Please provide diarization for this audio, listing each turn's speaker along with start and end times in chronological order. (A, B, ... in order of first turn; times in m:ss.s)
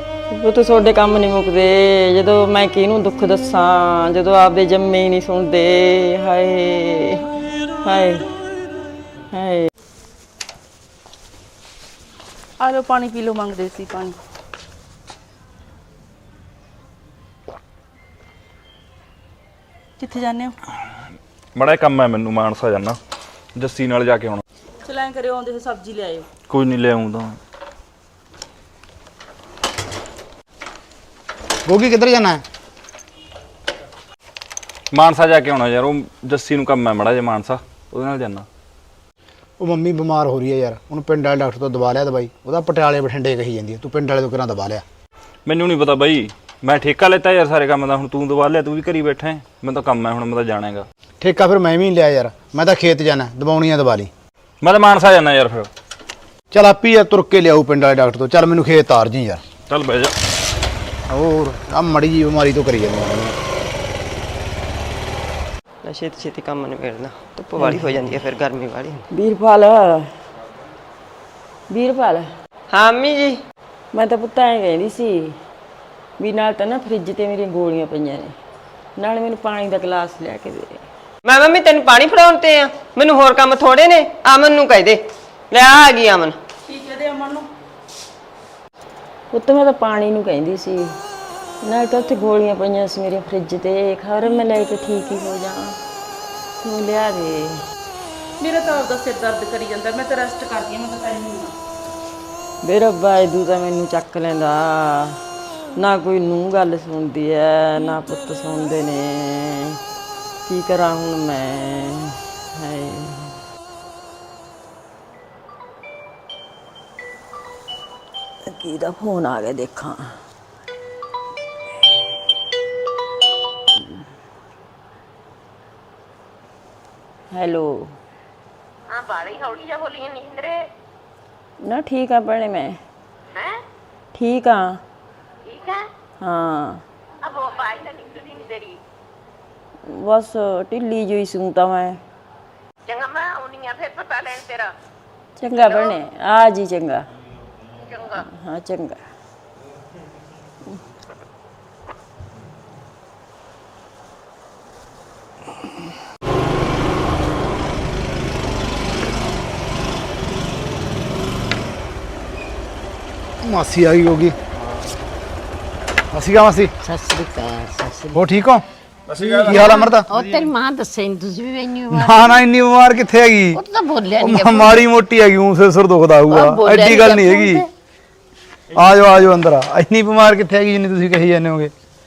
0:00.3-0:07.2 A
0:07.8-0:08.3 A
0:09.3-0:09.7 A
0:12.6-0:14.2 B
0:20.0-0:20.6 B
0:21.6-0:23.0 C
0:23.6-0:24.4 C
0:24.8-0:26.3 B
0:26.5-0:27.4 C
0:31.6-0:32.4 D
0:34.9-0:38.5 C
0:39.6-0:44.8 D
0:45.5-0:50.9 C
0:51.2-0:54.1 D
0:54.6-0:55.7 C
0:56.5-0:59.4 D
0:59.7-1:00.1 C
1:01.1-1:03.4 D
1:05.8-1:09.0 E
1:09.1-1:10.1 A
1:11.7-1:12.3 A
1:12.7-1:13.4 E
1:13.9-1:15.4 A
1:16.2-1:18.3 A
1:19.0-1:20.8 A
1:21.2-1:26.4 E
1:26.7-1:27.5 B
1:29.3-1:31.0 A
1:31.6-1:35.8 A
1:36.6-1:37.6 A
1:38.4-1:41.6 B
1:42.6-1:45.2 A
1:45.8-1:49.8 A
1:50.5-1:53.4 A
1:58.5-2:00.2 A
2:07.3-2:08.0 A
2:08.9-2:10.7 F
2:11.6-2:12.8 A
2:13.3-2:13.6 F
2:14.1-2:14.8 A
2:15.5-2:15.9 F
2:16.2-2:16.8 A
2:17.2-2:18.8 F
2:19.9-2:22.0 A
2:22.9-2:24.7 F
2:25.4-2:27.1 A
2:25.6-2:26.0 F
2:27.8-2:28.2 F
2:28.2-2:29.0 A
2:43.4-2:44.4 D
2:46.1-2:46.7 D
2:46.8-2:48.2 F
2:48.1-2:48.6 D
2:49.1-2:50.4 C
2:49.4-2:50.1 D
2:49.5-2:52.4 F
2:51.9-2:53.6 D
2:53.6-2:54.8 F
2:54.2-2:57.6 D
2:56.3-2:57.7 F
2:58.7-2:59.2 C
2:58.8-3:01.7 D